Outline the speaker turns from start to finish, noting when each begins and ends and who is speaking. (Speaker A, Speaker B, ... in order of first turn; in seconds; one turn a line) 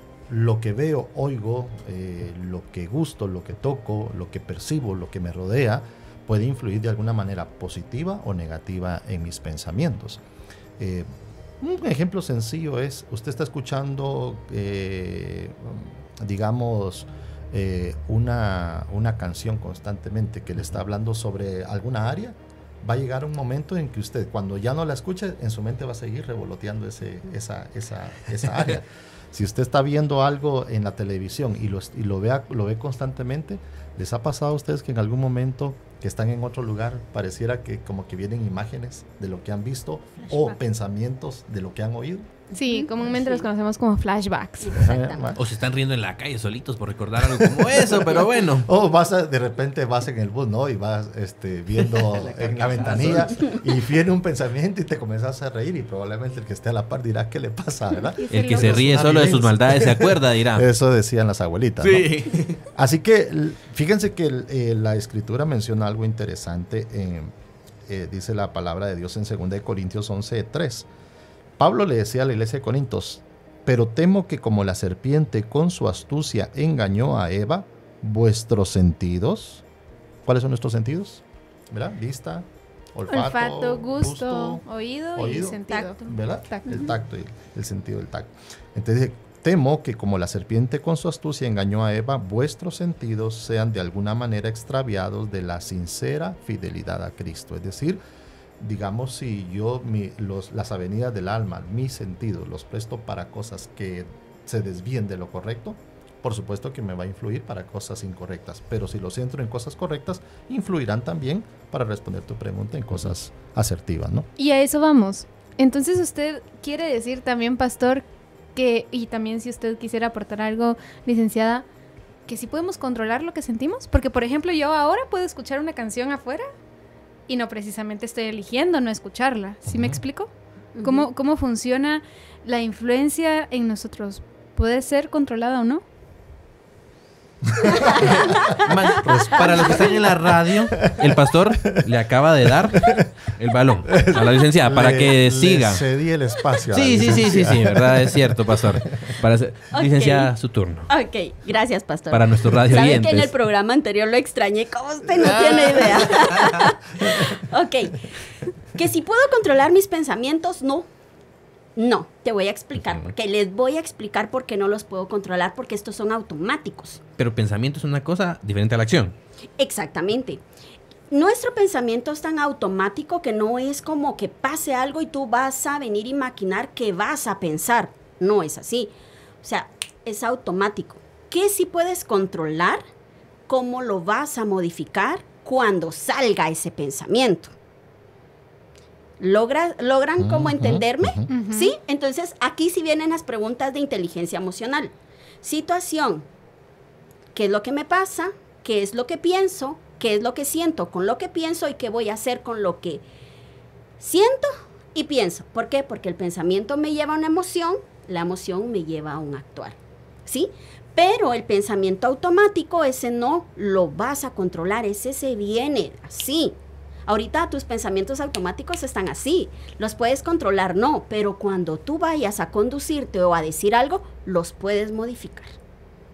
Speaker A: 0.3-10.2
Speaker A: 10.8-11.1
Speaker A: 11.6-42.3
Speaker B: 42.5-44.9
Speaker C: 42.6-43.4
Speaker C: 44.6-45.3
Speaker A: 44.7-45.4
Speaker D: 45.3-48.7
Speaker A: 47.2-62.1
Speaker D: 51.9-53.5
Speaker B: 58.2-59.0
Speaker D: 58.3-60.7
Speaker D: 61.8-62.6
Speaker A: 62.6-67.3
Speaker A: 67.9-70.9
Speaker A: 71.6-79.6
Speaker A: 80.2-98.0
Speaker B: 83.1-86.9
Speaker A: 98.6-114.3
Speaker B: 114.4-121.6
Speaker B: 122.3-126.5
Speaker B: 127.3-130.3
Speaker A: 129.7-130.0
Speaker C: 130.8-131.1
Speaker B: 130.8-135.8
Speaker A: 137.4-137.8
Speaker C: 137.6-138.6
Speaker D: 138.0-145.8
Speaker A: 139.0-141.8
Speaker A: 143.9-148.5
Speaker D: 146.7-150.9
Speaker C: 149.7-150.3
Speaker C: 150.9-158.1
Speaker D: 152.1-153.3
Speaker D: 155.2-156.7
Speaker C: 158.7-160.9
Speaker C: 161.8-167.0
Speaker D: 162.8-163.1
Speaker D: 167.2-169.1
Speaker C: 169.6-170.4
Speaker C: 171.1-182.8
Speaker C: 183.5-187.5
Speaker C: 189.2-196.3
Speaker A: 190.2-191.3
Speaker B: 191.3-191.7
Speaker C: 197.3-203.0
Speaker C: 204.0-225.6